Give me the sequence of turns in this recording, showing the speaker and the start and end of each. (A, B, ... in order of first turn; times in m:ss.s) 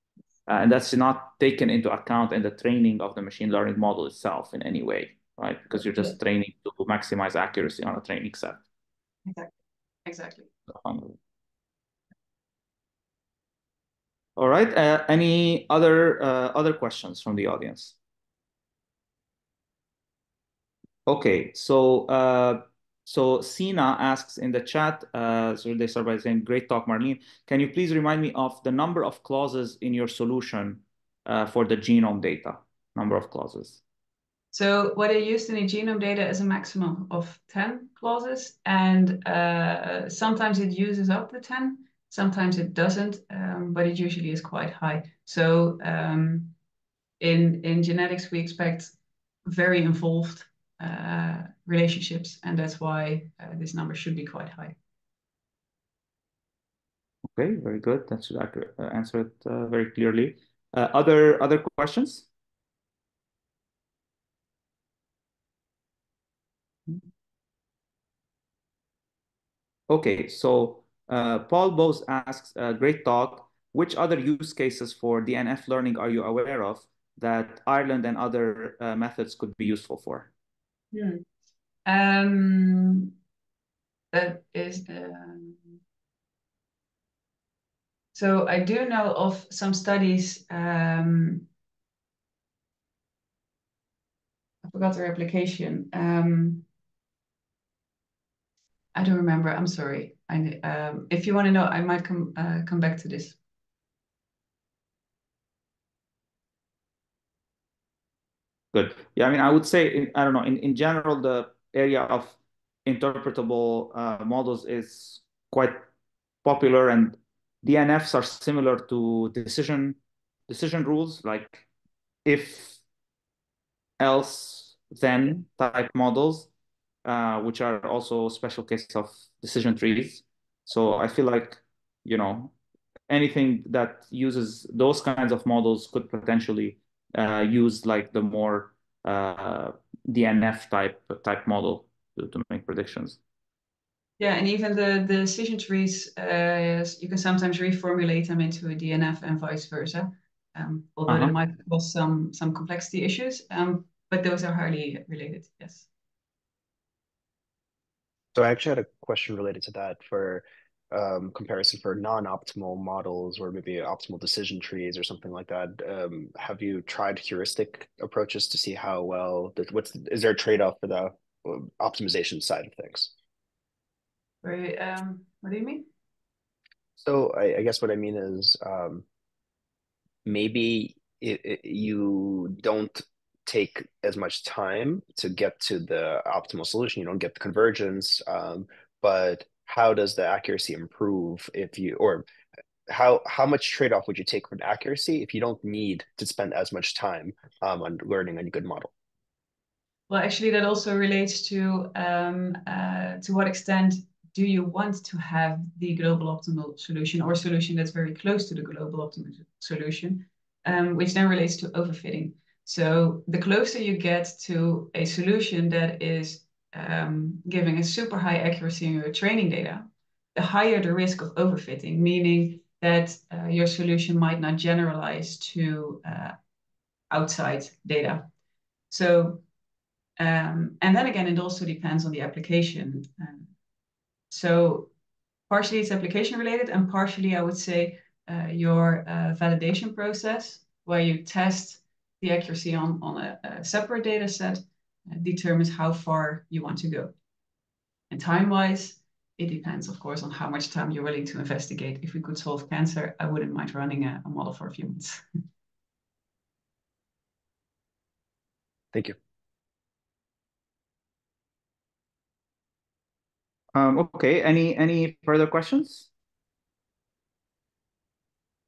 0:00.5-0:08.6 A
0:09.2-0:10.5 B
0:10.7-0:11.2 A
0:14.4-0:17.9 A
0:21.0-0:33.8 A
0:34.5-0:46.5 B
0:47.2-0:48.9 B
0:49.4-0:54.7 B
0:57.3-1:02.3 A
1:09.9-1:20.3 A
1:20.9-1:21.2 B
1:21.8-1:23.1 B
1:24.1-1:25.8 B
1:28.1-1:31.5 B
1:34.6-1:36.6 B
1:38.9-1:43.4 B
1:48.7-1:55.9 A
1:56.4-2:01.7 A
2:02.2-2:02.8 A
2:04.0-2:06.5 A
2:07.0-2:12.5 A
2:13.1-2:23.2 A
2:24.2-2:35.9 B
2:31.1-2:31.3 A
2:38.3-2:53.1 C
2:54.4-2:55.8 B
2:57.0-2:59.0 C
3:00.2-3:12.2 C
3:12.9-3:18.9 C
3:20.1-3:46.4 B
3:47.1-3:48.3 B
3:48.9-3:49.4 B
3:50.2-3:53.5 B
3:54.3-3:54.9 B
3:55.5-4:07.1 B
4:08.1-4:15.2 B
4:23.7-4:26.1 A